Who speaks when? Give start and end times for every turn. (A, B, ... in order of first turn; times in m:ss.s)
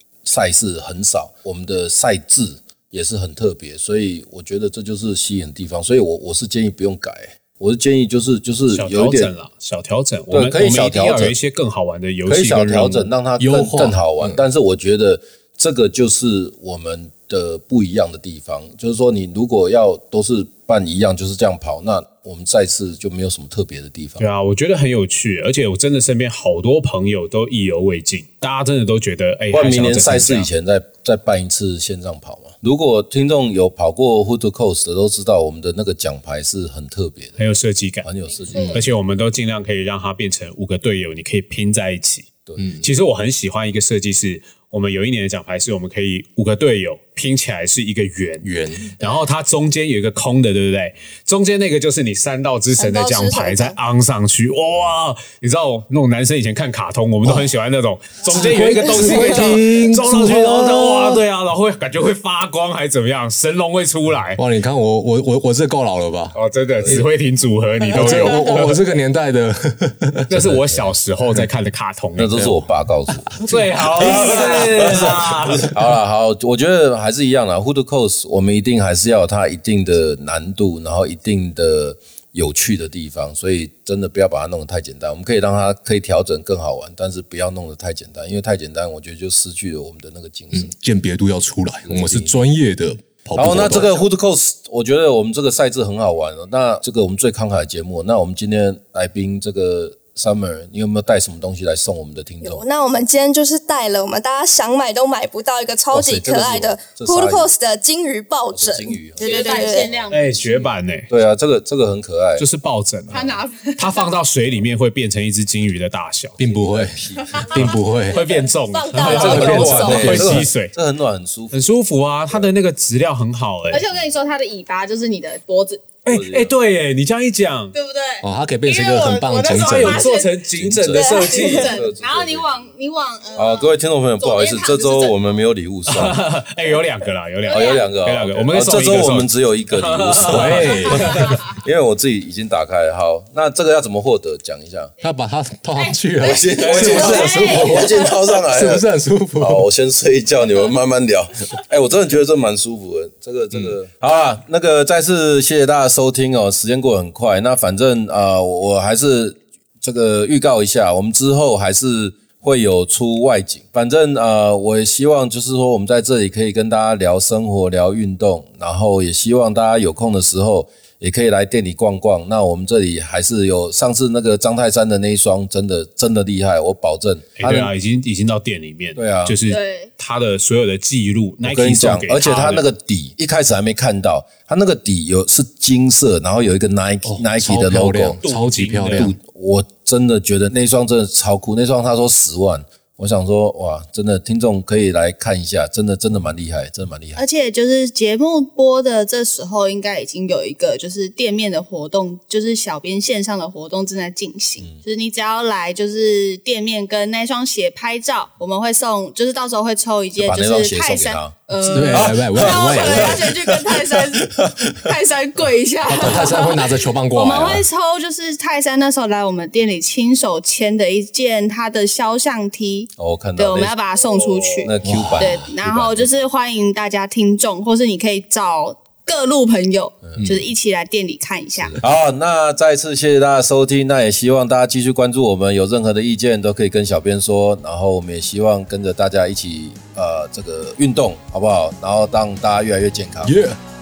0:00.2-0:09.3 A
0:08.7-0:13.1 B
0:10.3-0:11.4 A
0:12.3-0:24.2 A
0:13.4-0:14.4 C
0:24.2-0:30.5 B
0:29.5-0:37.4 A
0:37.4-0:38.1 B
0:38.0-0:38.8 A
0:38.3-0:38.8 D
0:38.7-0:42.3 B
0:42.6-0:42.9 C
0:42.8-1:04.4 B
0:48.4-0:48.9 C
0:52.8-0:53.8 E
0:57.2-0:57.5 C
0:58.2-1:01.2 C
1:04.4-1:07.0 C
1:06.3-1:08.8 B
1:07.9-1:10.4 C
1:08.0-1:08.4 D
1:10.3-1:12.5 B
1:10.4-1:11.0 A
1:12.2-1:13.4 A
1:12.3-1:15.2 C
1:13.4-1:15.7 B
1:14.0-1:30.7 A
1:30.5-1:34.0 C
1:31.9-1:32.3 A
1:33.4-1:42.6 A
1:42.4-1:49.9 E
1:45.9-1:47.5 A
1:48.5-1:52.5 A
1:49.2-1:50.7 D
1:50.1-1:51.1 B
1:52.4-1:53.2 B
1:53.1-1:53.4 A
1:53.1-1:54.1 D
1:53.8-1:56.4 B
1:56.4-1:58.2 C
1:56.4-1:57.7 A
1:57.6-2:00.8 B
1:58.7-2:00.4 E
1:59.1-2:01.6 A
1:59.2-2:00.5 C
2:01.5-2:03.8 B
2:03.7-2:06.0 D
2:06.0-2:07.8 B
2:06.1-2:06.5 A
2:07.7-2:15.4 D
2:08.2-2:10.1 C
2:09.5-2:11.9 B
2:10.5-2:12.7 A
2:13.4-2:16.2 A
2:15.9-2:21.4 B
2:17.5-2:17.9 D
2:17.5-2:24.9 A
2:20.2-2:21.3 C
2:21.1-2:21.4 D
2:25.0-2:27.9 C
2:25.8-2:28.3 D
2:26.2-2:28.9 A
2:26.7-2:27.2 B
2:28.5-2:29.7 C
2:29.4-2:57.7 A
2:57.4-3:02.6 B
2:59.0-2:59.4 A
2:59.5-2:59.9 D
3:01.4-3:08.2 A
3:07.0-3:09.2 C
3:08.2-3:09.1 B
3:09.0-3:17.2 A
3:17.2-3:51.8 D
3:30.2-3:31.4 A
3:31.6-3:33.3 C
3:31.9-3:34.8 A
3:35.8-3:37.6 C
3:43.0-3:43.7 A
3:44.0-3:44.7 B
3:44.6-3:46.1 A
3:44.8-3:45.5 C
3:50.0-3:50.3 A
3:50.2-3:50.4 C
3:51.6-4:03.3 A
4:03.2-4:03.6 C